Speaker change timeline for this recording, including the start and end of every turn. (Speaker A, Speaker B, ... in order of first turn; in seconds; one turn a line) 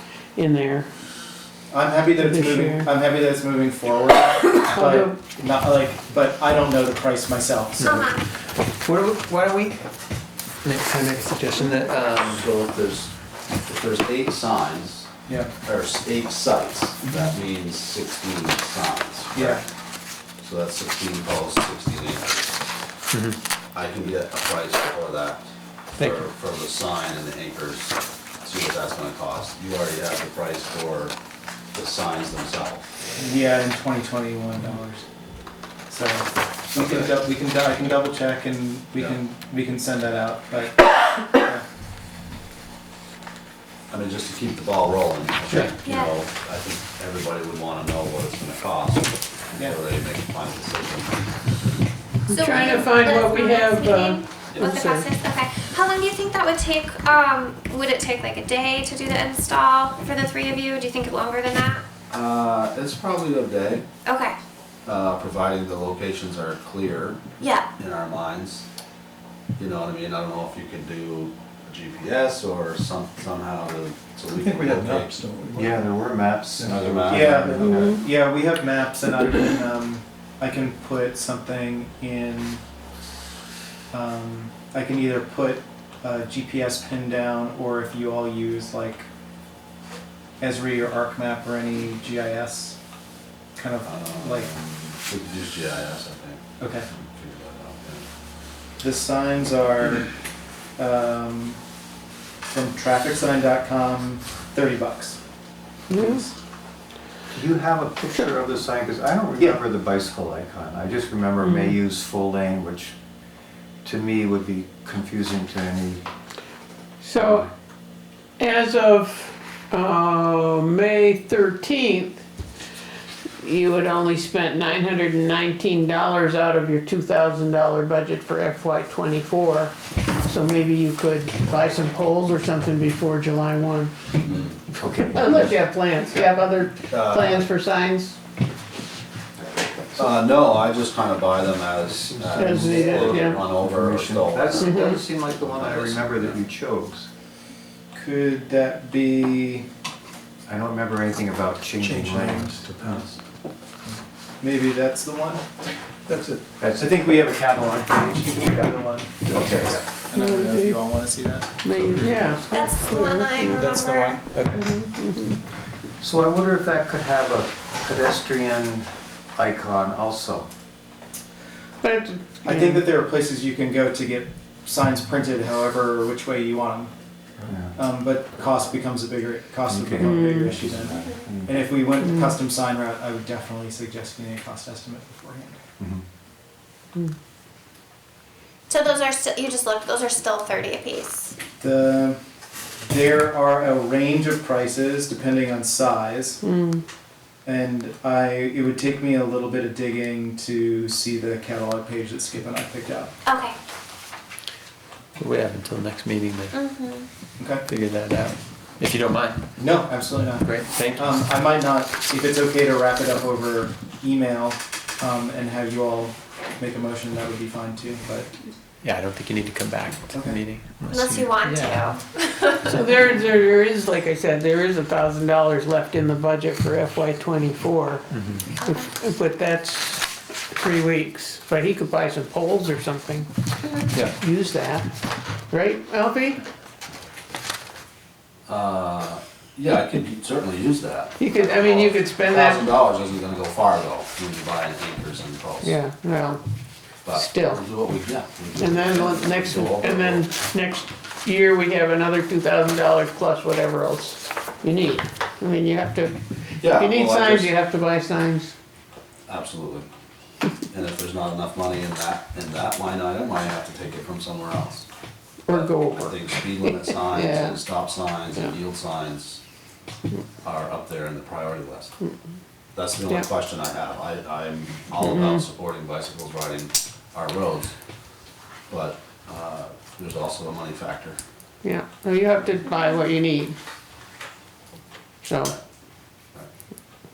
Speaker A: 0.3-0.9
Speaker B: 1.7-8.2
Speaker A: 2.2-2.9
Speaker A: 4.7-5.2
Speaker C: 7.8-8.2
Speaker D: 8.7-9.9
Speaker D: 10.6-12.5
Speaker E: 12.2-15.1
Speaker B: 15.3-15.5
Speaker E: 15.7-19.7
Speaker B: 19.3-19.6
Speaker E: 20.4-22.5
Speaker D: 23.1-23.4
Speaker E: 23.7-31.1
Speaker D: 26.0-26.3
Speaker E: 31.7-32.9
Speaker B: 33.2-35.0
Speaker B: 35.9-41.6
Speaker E: 43.9-51.9
Speaker C: 45.8-46.1
Speaker C: 52.3-61.8
Speaker A: 52.3-55.1
Speaker E: 62.1-63.9
Speaker C: 64.0-64.4
Speaker E: 64.8-68.7
Speaker C: 67.4-67.7
Speaker E: 69.6-75.2
Speaker D: 74.4-75.8
Speaker F: 75.5-78.1
Speaker E: 76.6-77.6
Speaker B: 77.1-82.6
Speaker B: 83.9-89.0
Speaker B: 90.4-92.8
Speaker B: 93.6-94.5
Speaker E: 93.8-98.1
Speaker B: 96.6-96.9
Speaker B: 98.8-100.1
Speaker B: 100.8-101.6
Speaker B: 102.5-105.2
Speaker A: 105.9-106.3
Speaker B: 106.0-106.3
Speaker F: 107.3-113.0
Speaker A: 111.4-111.8
Speaker F: 113.8-116.0
Speaker A: 117.0-117.5
Speaker F: 117.2-117.5
Speaker A: 118.4-122.2
Speaker A: 123.4-133.9
Speaker E: 134.2-134.6
Speaker F: 134.7-135.6
Speaker A: 135.1-138.2
Speaker E: 136.9-137.5
Speaker E: 139.9-146.4
Speaker F: 141.9-147.1
Speaker A: 142.3-143.4
Speaker A: 144.6-145.0
Speaker B: 147.9-149.7
Speaker F: 150.5-153.2
Speaker D: 151.8-153.0
Speaker B: 154.4-155.4
Speaker D: 156.1-156.4
Speaker F: 156.6-157.0
Speaker B: 156.8-161.5
Speaker F: 159.3-159.8
Speaker A: 160.1-160.8
Speaker A: 161.6-163.7
Speaker D: 161.9-162.3
Speaker C: 162.5-164.2
Speaker B: 163.6-164.6
Speaker A: 164.5-165.4
Speaker F: 166.0-170.5
Speaker A: 171.8-172.9
Speaker B: 172.4-176.9
Speaker F: 177.5-177.8
Speaker B: 177.8-185.6
Speaker F: 179.7-181.7
Speaker A: 180.0-180.5
Speaker A: 182.0-182.3
Speaker C: 188.7-191.3
Speaker B: 191.6-192.2
Speaker B: 192.9-196.4
Speaker A: 196.4-196.8
Speaker B: 197.4-203.1
Speaker C: 203.3-203.6
Speaker D: 205.2-206.6
Speaker C: 206.5-207.1
Speaker B: 207.4-207.7
Speaker D: 207.7-209.5
Speaker B: 209.6-218.3
Speaker D: 210.4-211.1
Speaker D: 218.8-221.8
Speaker B: 220.1-220.4
Speaker C: 220.9-222.7
Speaker A: 222.6-228.1
Speaker D: 228.1-228.5
Speaker C: 228.4-228.9
Speaker A: 228.6-233.3
Speaker A: 234.2-234.9
Speaker A: 235.5-236.4
Speaker E: 238.5-245.8
Speaker A: 241.2-242.7
Speaker A: 245.6-246.4
Speaker E: 247.1-250.3
Speaker A: 247.1-247.6
Speaker A: 248.6-258.5
Speaker E: 256.6-257.5
Speaker E: 259.3-259.9
Speaker E: 260.7-264.9
Speaker A: 265.5-267.6
Speaker E: 265.5-269.4
Speaker E: 270.4-271.9
Speaker E: 272.7-277.7
Speaker A: 275.0-275.4
Speaker E: 278.7-281.2
Speaker A: 281.6-283.6
Speaker A: 285.2-285.6